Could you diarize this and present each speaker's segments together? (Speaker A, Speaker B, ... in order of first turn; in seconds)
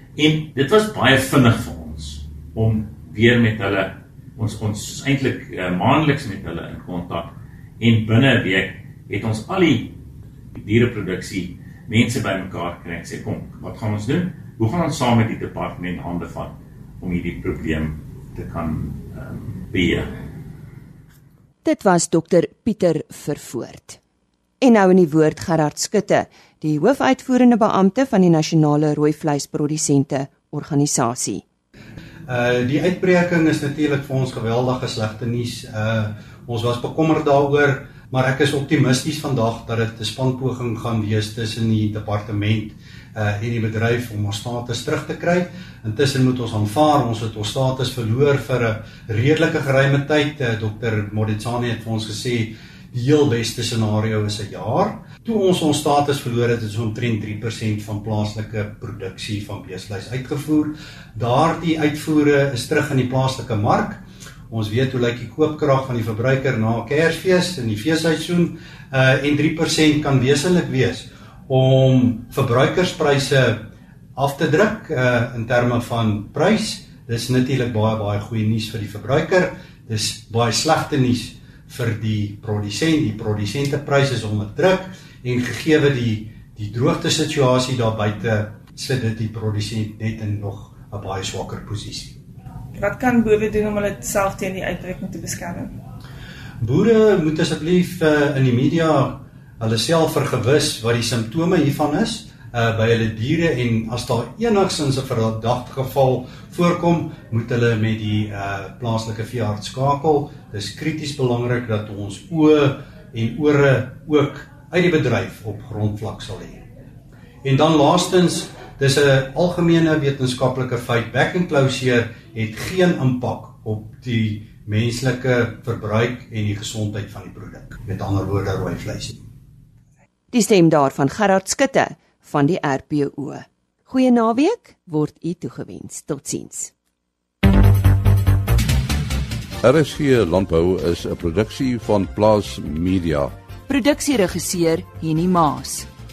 Speaker A: 0.2-10.0, 10.6-20.2
Speaker B: 21.6-24.0, 24.6-31.4, 130.3-136.7
Speaker C: 32.3-92.2, 96.6-116.6, 117.4-129.2
Speaker D: 92.7-95.8
Speaker E: 139.6-143.3
Speaker F: 143.7-145.9